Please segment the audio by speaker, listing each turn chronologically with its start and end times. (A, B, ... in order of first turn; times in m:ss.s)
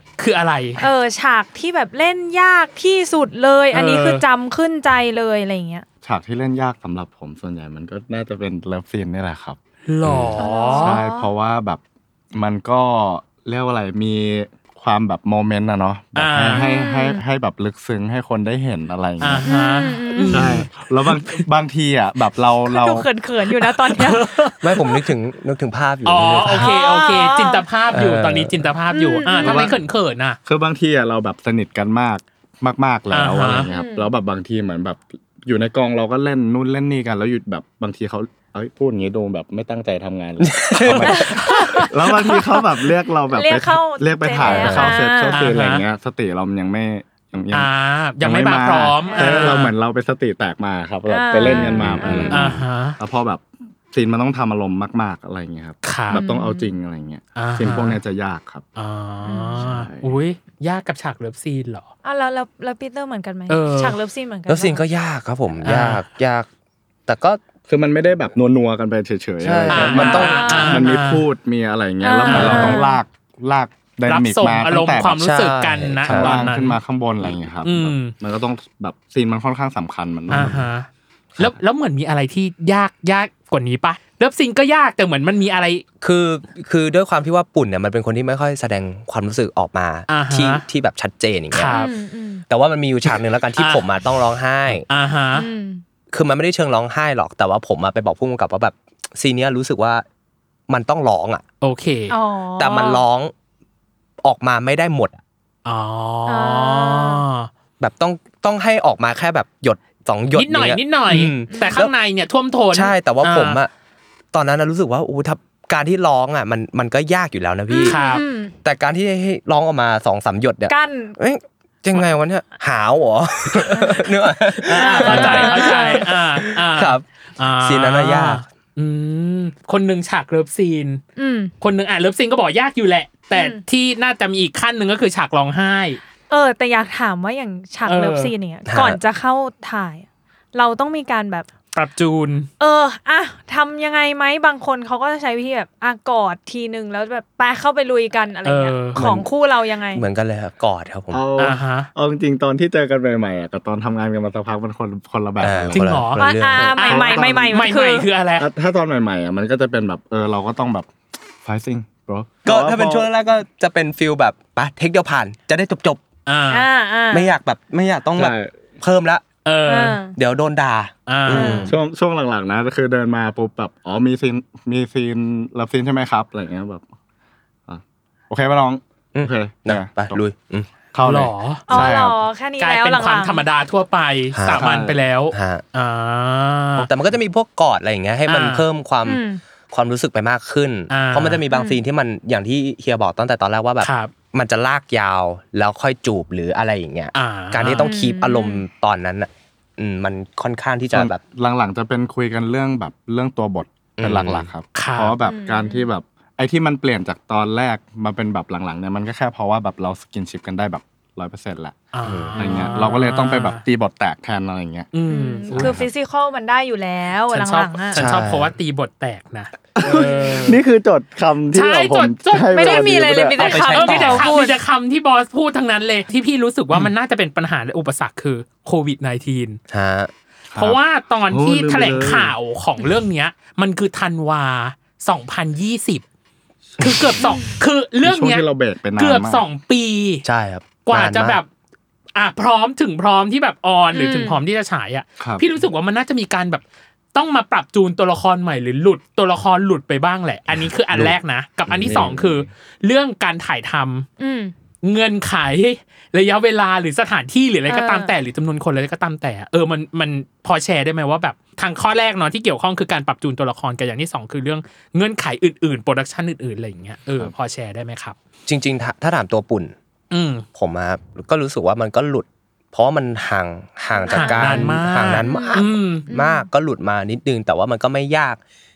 0:00.2-0:00.8 A
0:00.8-0:05.8 B
0:03.7-0:04.2 A
0:06.0-0:09.6 C
0:09.9-0:11.0 A
0:10.0-0:10.3 D
0:10.4-0:11.3 B
0:10.6-0:11.8 C
0:12.3-0:19.5 C
0:16.2-0:16.6 A
0:16.5-0:17.2 B
0:19.2-0:21.4 A
0:19.4-0:20.5 B
0:20.3-0:23.1 C
0:22.7-0:24.3 B
0:23.8-0:24.6 A
0:24.6-0:26.7 D
0:26.0-0:30.4 A
0:26.5-0:27.6 B
0:27.9-0:28.7 D
0:28.9-0:29.7 B
0:29.4-0:29.8 C
0:30.4-0:58.6 C
0:33.1-0:33.7 A
0:33.7-0:34.1 B
0:40.4-0:41.8 D
0:41.1-0:41.8 B
0:43.3-0:45.4 B
0:44.4-0:45.8 A
0:44.5-0:44.9 D
0:47.5-0:49.7 A
0:49.0-0:49.6 B
0:51.1-0:52.4 B
0:51.4-0:53.0 A
0:51.5-0:52.5 D
0:55.8-0:56.2 A
0:56.1-0:56.7 B
0:57.4-0:58.0 A
0:58.8-1:01.9 A
0:59.2-0:59.6 B
0:59.6-1:00.1 C
1:02.0-1:04.8 B
1:03.5-1:04.0 A
1:04.5-1:06.5 D
1:05.6-1:06.0 A
1:07.1-1:07.4 D
1:07.7-1:15.2 C
1:09.4-1:10.5 D
1:09.7-1:11.2 A
1:09.9-1:10.9 B
1:12.0-1:13.0 B
1:12.2-1:12.8 A
1:12.4-1:12.7 D
1:14.1-1:16.8 A
1:15.1-1:16.4 D
1:16.0-1:20.7 C
1:17.6-1:18.1 A
1:20.3-1:25.8 A
1:26.0-1:31.8 D
1:30.1-1:30.6 A
1:31.5-1:31.9 A
1:31.7-1:32.4 B
1:32.5-1:34.8 D
1:33.6-1:33.8 A
1:34.9-1:35.5 A
1:35.3-1:35.8 B
1:36.1-1:40.0 D
1:40.7-1:41.4 D
1:41.6-1:42.1 A
1:42.1-1:43.0 B
1:42.6-1:43.3 D
1:44.2-1:45.2 D
1:45.6-1:47.5 A
1:46.3-1:47.2 B
1:47.8-1:51.9 D
1:50.3-1:53.6 A
1:51.5-1:51.8 B
1:52.7-1:53.7 D
1:54.3-1:58.0 D
1:57.7-1:58.5 B
1:57.8-1:58.2 A
1:58.6-2:07.0 D
2:00.7-2:01.2 B
2:04.6-2:11.0 A
2:04.7-2:06.0 B
2:07.6-2:08.4 D
2:11.2-2:11.5 B
2:11.6-2:16.0 A
2:13.3-2:13.6 B
2:16.3-2:21.5 B
2:17.8-2:18.3 A
2:18.6-2:19.0 D
2:21.7-2:22.5 A
2:22.6-2:30.0 B
2:28.4-2:29.0 A
2:28.9-2:29.3 D
2:29.9-2:31.2 D
2:31.1-2:36.0 C
2:31.4-2:31.9 A
2:35.4-2:36.8 D
2:35.7-2:36.2 A
2:36.2-2:38.0 B
2:36.5-2:37.6 C
2:36.8-2:38.5 A
2:38.4-2:40.9 C
2:41.4-2:43.1 C
2:42.4-2:46.0 D
2:46.3-2:46.7 A
2:46.5-2:47.3 B
2:47.1-2:49.2 D
2:48.2-2:48.5 C
2:49.4-2:50.0 A
2:49.6-2:50.1 B
2:50.1-2:51.7 D
2:51.1-2:51.7 A
2:51.3-2:51.7 B
2:51.6-2:56.8 C
2:57.7-3:00.2 C
2:59.1-3:00.7 D
3:00.9-3:02.2 C
3:01.0-3:01.9 A
3:01.7-3:03.4 B
3:02.6-3:06.9 A
3:04.3-3:04.7 D
3:04.5-3:05.0 C
3:05.3-3:05.6 D
3:06.8-3:21.2 D
3:08.3-3:08.6 A
3:09.0-3:09.4 B
3:10.9-3:11.4 A
3:11.5-3:11.8 B
3:13.8-3:14.1 A
3:17.1-3:17.9 A
3:17.8-3:18.6 B
3:20.9-3:31.8 C
3:24.0-3:24.5 D
3:24.7-3:25.2 A
3:25.2-3:25.9 B
3:31.9-3:33.6 A
3:32.0-3:32.7 D
3:32.4-3:34.9 C
3:34.9-3:35.7 A
3:35.1-3:38.0 B
3:35.5-3:35.8 C
3:37.3-3:40.6 A
3:37.9-3:38.5 D
3:39.7-3:43.5 C
3:40.0-3:40.3 B
3:41.5-3:49.6 A
3:42.5-3:44.6 B
3:43.4-3:44.3 D
3:49.7-3:50.1 D
3:50.5-3:52.3 C
3:50.6-3:56.0 A
3:56.7-3:57.2 C
3:56.8-3:58.4 A
3:58.0-3:59.4 C
3:59.0-4:00.2 A
4:00.2-4:01.4 D
4:00.8-4:01.5 A
4:02.1-4:06.6 A
4:03.9-4:04.4 B
4:05.2-4:05.4 C
4:07.1-4:14.1 A
4:11.7-4:12.4 C
4:11.8-4:12.1 D
4:14.2-4:14.5 B
4:14.8-4:28.2 A
4:17.7-4:18.1 B
4:28.5-4:29.7 D
4:30.1-4:30.4 A
4:30.5-4:38.4 D
4:33.9-4:36.4 B
4:34.1-4:36.0 A